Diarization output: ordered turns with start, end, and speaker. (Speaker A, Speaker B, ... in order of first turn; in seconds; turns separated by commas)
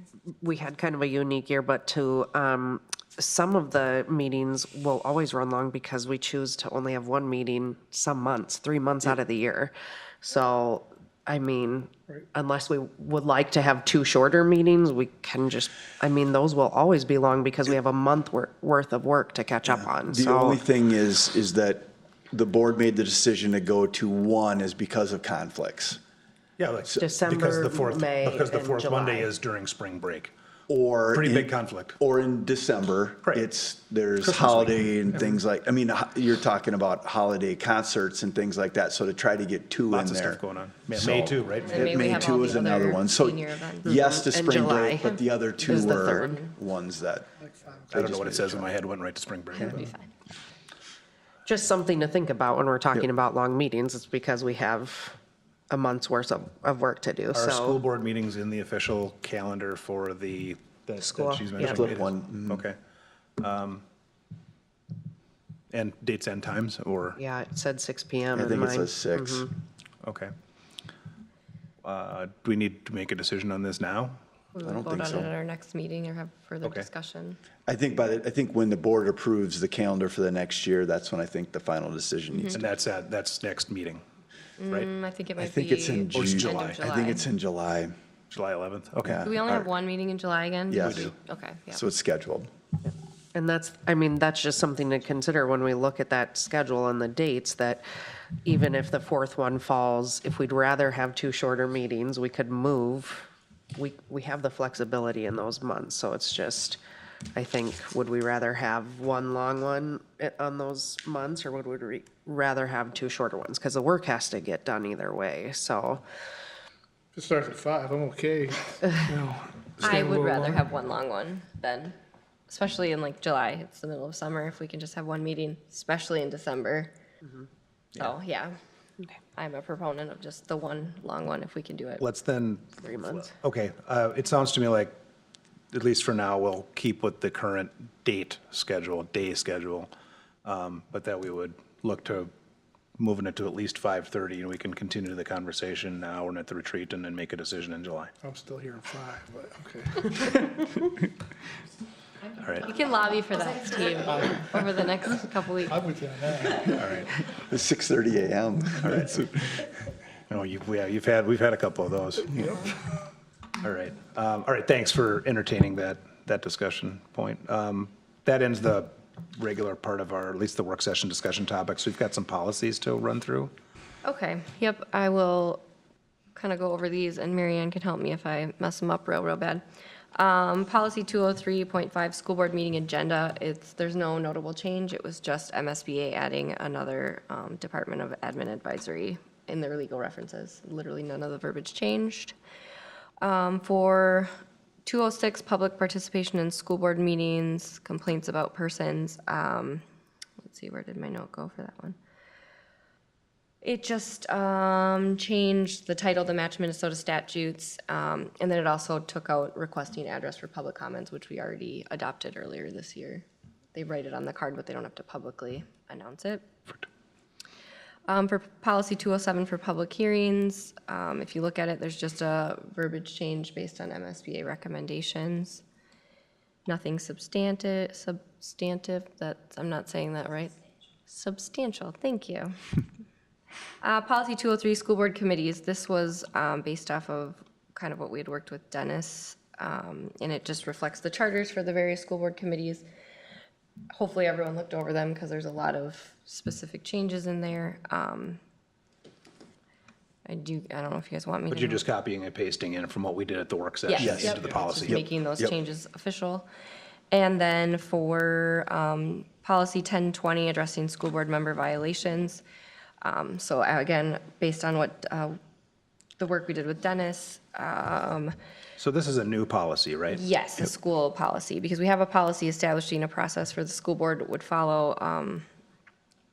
Speaker A: 0.3-20.6, Speaker B: 19.7-26.0, Speaker C: 26.6-30.3, Speaker A: 27.0-29.3, Speaker B: 30.7-47.3, Speaker C: 31.1-31.9, Speaker C: 34.2-35.4, Speaker C: 39.9-42.3, Speaker D: 41.6-43.9, Speaker A: 43.8-46.4, Speaker D: 45.1-46.5, Speaker B: 47.9-48.7, Speaker C: 47.9-49.9, Speaker D: 49.5-50.1, Speaker A: 51.5-55.2, Speaker A: 55.7-57.8, Speaker C: 57.3-62.8, Speaker A: 61.0-61.9, Speaker B: 61.6-62.6, Speaker C: 63.4-63.8, Speaker C: 65.7-67.2, Speaker A: 67.2-69.5, Speaker B: 68.3-69.5, Speaker C: 70.0-70.3, Speaker C: 71.8-74.2, Speaker D: 74.5-77.4, Speaker B: 74.6-75.3, Speaker C: 76.6-76.9, Speaker B: 77.7-82.7, Speaker D: 82.3-82.6, Speaker C: 82.5-84.0, Speaker D: 84.6-87.3, Speaker B: 85.4-87.9, Speaker C: 86.1-87.0, Speaker C: 88.3-89.3, Speaker B: 89.0-89.7, Speaker D: 89.2-91.8, Speaker B: 90.7-91.1, Speaker C: 90.8-91.1, Speaker B: 91.7-92.5, Speaker A: 93.3-97.8, Speaker A: 98.4-106.8, Speaker A: 107.3-116.0, Speaker E: 117.1-120.6, Speaker D: 119.8-122.0, Speaker D: 122.5-126.9, Speaker D: 128.0-128.5, Speaker D: 129.3-132.0, Speaker C: 132.0-135.0, Speaker A: 132.8-133.3, Speaker C: 135.7-139.9, Speaker C: 140.4-142.3, Speaker C: 143.0-148.1, Speaker E: 148.2-150.5, Speaker C: 152.4-152.7, Speaker D: 152.6-155.8, Speaker E: 155.7-156.9, Speaker C: 156.7-157.1, Speaker B: 157.3-159.7, Speaker C: 160.3-162.7, Speaker C: 163.6-173.5, Speaker D: 174.0-175.6, Speaker D: 176.3-179.6, Speaker D: 180.2-192.3, Speaker D: 193.2-194.3, Speaker D: 194.8-199.8, Speaker D: 200.4-202.0, Speaker D: 203.6-216.5, Speaker D: 218.1-225.6, Speaker D: 226.7-230.6, Speaker D: 231.1-232.5, Speaker D: 233.8-242.8, Speaker D: 243.9-248.4, Speaker D: 250.2-251.8, Speaker C: 251.5-255.0, Speaker D: 253.8-256.5, Speaker B: 254.0-255.5, Speaker D: 257.1-262.4, Speaker D: 263.0-265.4, Speaker D: 266.2-268.3, Speaker C: 268.8-270.2, Speaker D: 270.1-275.4